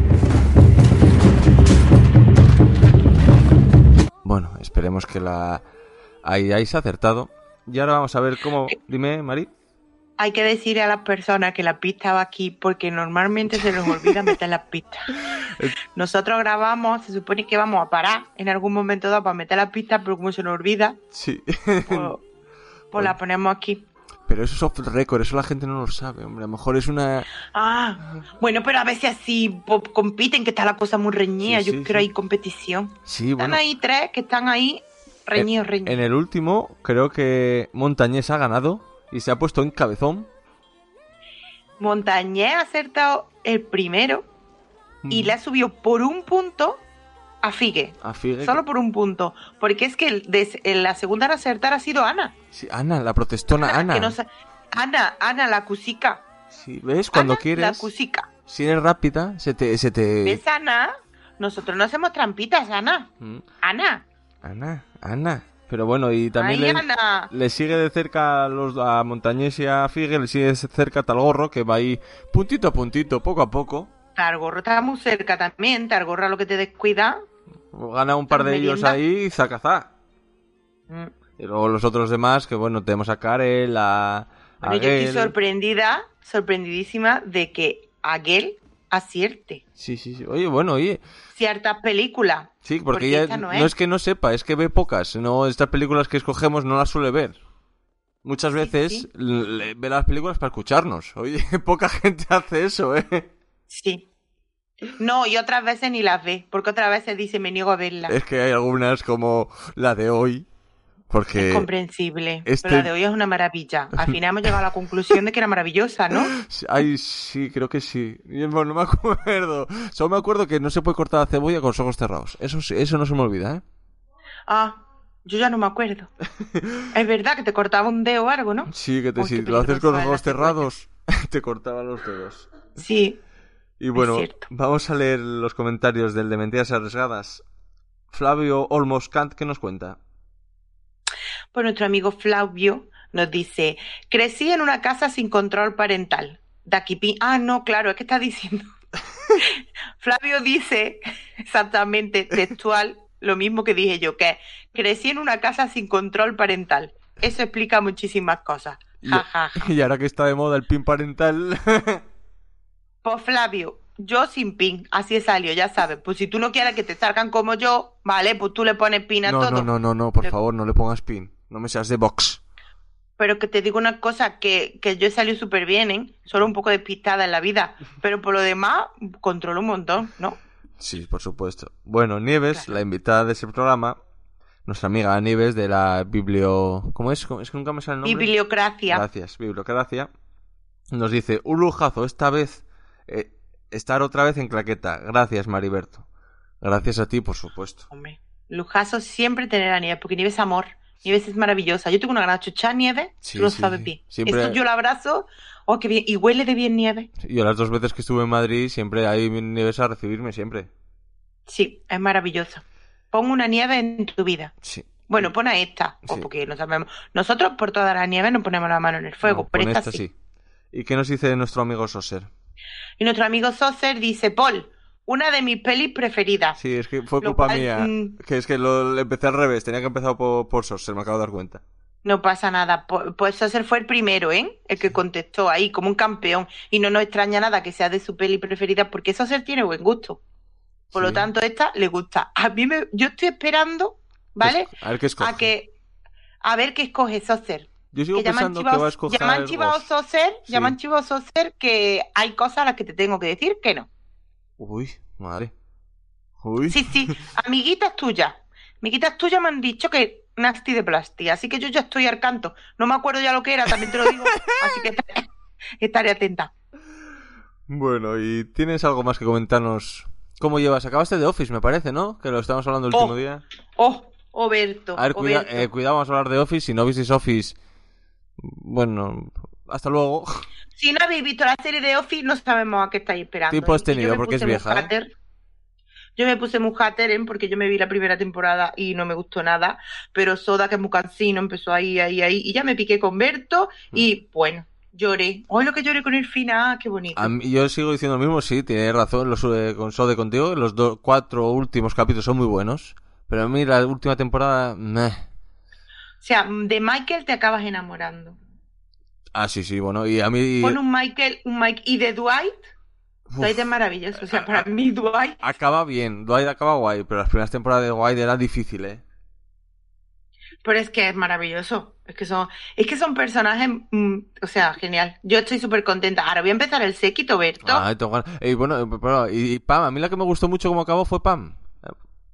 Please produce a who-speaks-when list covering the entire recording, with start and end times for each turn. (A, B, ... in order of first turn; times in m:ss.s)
0:04.2-0:05.6 A
0:06.2-0:09.5 A
0:10.2-0:15.2 B
0:13.6-0:14.3 A
0:15.2-0:15.8 A
0:15.9-0:21.0 B
0:21.1-0:22.1 A
0:21.8-0:22.2 B
0:22.9-0:23.8 B
0:24.3-0:27.3 A
0:27.5-0:36.0 B
0:31.4-0:32.1 A
0:33.0-0:33.6 A
0:35.4-0:40.3 A
0:41.8-0:44.3 B
0:45.0-0:45.4 A
0:45.1-0:46.8 B
0:47.4-0:52.3 B
0:48.0-0:48.6 A
0:52.5-0:54.2 A
0:53.6-0:56.2 B
0:56.5-0:57.9 A
0:57.1-0:58.3 B
0:58.5-1:00.4 A
1:00.2-1:03.1 B
1:03.6-1:04.0 B
1:04.4-1:13.9 A
1:06.4-1:07.3 B
1:14.2-1:17.2 B
1:17.7-1:19.9 A
1:18.3-1:19.0 B
1:21.4-1:25.3 A
1:24.6-1:29.6 B
1:29.8-1:31.0 A
1:31.3-1:33.7 B
1:32.6-1:37.4 A
1:38.2-1:43.3 A
1:38.6-1:39.1 B
1:43.7-1:44.0 B
1:44.9-1:48.1 B
1:48.1-1:50.4 A
1:51.1-1:51.7 A
1:51.4-1:56.3 B
1:52.4-1:52.9 A
1:53.9-1:54.6 A
1:56.3-2:03.6 A
2:04.5-2:06.1 B
2:06.4-2:06.8 A
2:06.9-2:10.7 B
2:08.7-2:12.5 A
2:12.8-2:13.2 B
2:13.8-2:17.4 A
2:13.9-2:14.4 B
2:18.1-2:20.0 A
2:21.5-2:28.7 B
2:29.4-2:39.7 B
2:39.0-2:42.0 A
2:43.0-2:50.3 B
2:49.2-2:52.4 A
2:53.2-3:00.4 B
3:00.8-3:04.0 A
3:04.6-3:08.3 A
3:08.0-3:09.0 B
3:08.9-3:10.1 A
3:10.9-3:16.0 A
3:16.6-3:17.8 A
3:17.9-3:27.1 B
3:23.2-3:24.6 A
3:27.2-3:30.7 A
3:31.5-3:34.5 B
3:34.6-3:35.3 A
3:35.1-3:40.0 B
3:39.2-3:40.1 A
3:40.7-3:42.3 A
3:43.0-3:46.6 B
3:46.6-3:51.6 A
3:47.2-3:48.2 B
3:52.0-4:00.2 B
4:00.9-4:01.3 A
4:00.9-4:05.7 B
4:04.4-4:05.5 A
4:06.4-4:13.9 B
4:07.9-4:09.9 A
4:10.5-4:10.7 A
4:14.6-4:15.5 A
4:16.4-4:17.2 A
4:16.7-4:25.2 B
4:23.8-4:24.6 A
4:25.8-4:26.5 B
4:27.7-4:33.4 A
4:32.9-4:33.2 B
4:33.8-4:35.7 B
4:35.0-4:37.6 A
4:38.4-4:40.4 A
4:40.7-4:45.1 B
4:43.5-4:44.9 A
4:46.2-4:57.3 B
4:57.2-5:05.2 A
5:06.2-5:08.4 B
5:09.3-5:10.8 A
5:10.6-5:12.6 B
5:13.3-5:13.7 A
5:13.4-5:15.4 B
5:14.3-5:14.6 A
5:15.4-5:19.0 A
5:20.6-5:27.8 B
5:27.6-5:31.9 A